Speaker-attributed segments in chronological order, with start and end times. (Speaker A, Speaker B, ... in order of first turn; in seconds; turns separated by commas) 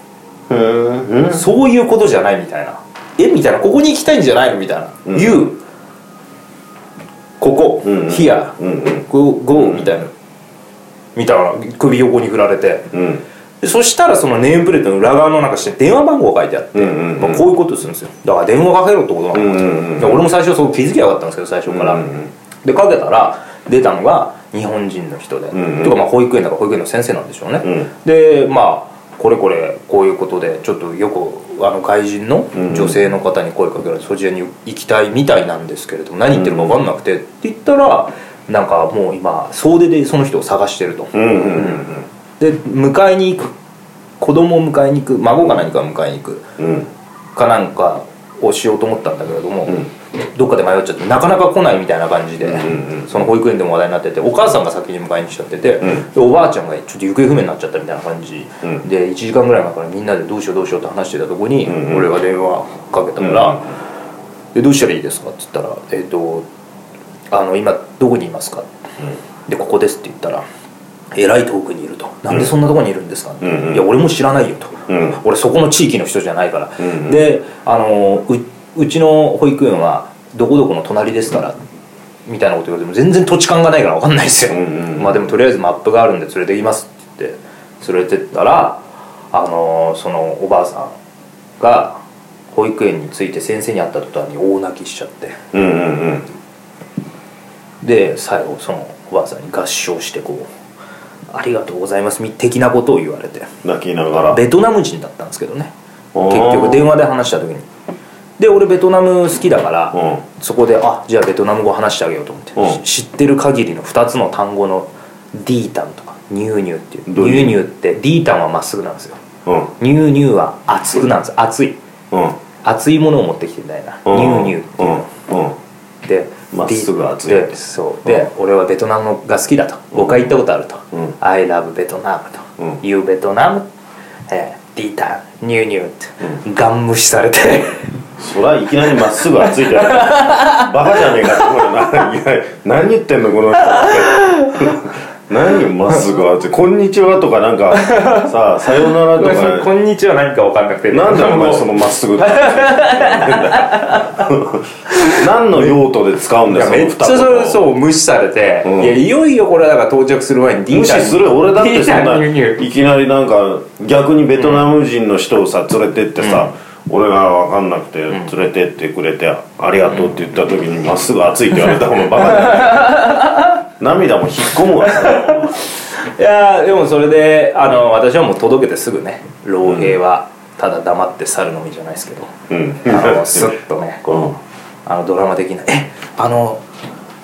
Speaker A: 0.5-1.4, Speaker B: 1.3-5.6, Speaker A: 5.1-5.5, Speaker B: 7.4-8.6, Speaker A: 7.8-9.9, Speaker B: 9.1-10.1, Speaker B: 11.2-12.9, Speaker A: 12.9-13.2, Speaker B: 13.6-22.1, Speaker A: 16.7-17.4, Speaker A: 19.3-20.2, Speaker A: 21.7-22.3, Speaker B: 22.6-41.8, Speaker A: 25.5-26.0, Speaker A: 27.6-27.9, Speaker A: 32.5-33.0, Speaker A: 36.3-36.8, Speaker A: 41.1-42.1, Speaker B: 42.4-43.5, Speaker B: 44.2-46.5, Speaker A: 46.6-46.9, Speaker B: 47.4-63.7, Speaker A: 52.4-53.2, Speaker A: 61.7-62.0, Speaker A: 63.2-63.6, Speaker B: 64.5-66.4, Speaker B: 67.3-68.7, Speaker B: 69.5-70.4, Speaker B: 71.1-81.6, Speaker A: 73.4-73.8, Speaker A: 74.9-75.2, Speaker A: 76.8-77.2, Speaker B: 82.2-90.9, Speaker A: 84.5-85.2, Speaker B: 91.6-92.0, Speaker B: 92.5-95.4, Speaker A: 95.5-96.3, Speaker B: 97.8-100.5, Speaker B: 101.3-103.5, Speaker A: 103.6-104.4, Speaker B: 104.3-105.7, Speaker A: 106.1-106.9, Speaker B: 106.2-107.7, Speaker B: 108.4-119.2, Speaker A: 109.9-110.2, Speaker A: 117.1-117.6, Speaker A: 119.5-119.7, Speaker B: 119.8-121.8, Speaker A: 122.1-122.3, Speaker B: 122.6-125.1, Speaker A: 124.0-125.6, Speaker B: 126.0-133.7, Speaker A: 126.5-128.3, Speaker A: 129.9-130.3, Speaker B: 134.3-137.9, Speaker A: 138.2-149.7, Speaker B: 139.2-141.5, Speaker B: 143.8-144.8, Speaker B: 147.7-154.3, Speaker A: 150.9-157.7, Speaker B: 154.9-155.2, Speaker B: 156.5-162.6, Speaker A: 158.6-159.0, Speaker A: 160.7-173.2, Speaker B: 164.4-164.7, Speaker B: 166.2-166.5, Speaker B: 172.1-173.6, Speaker A: 173.8-175.6, Speaker B: 174.8-186.6, Speaker A: 179.6-179.9, Speaker A: 182.5-183.6, Speaker A: 184.1-184.3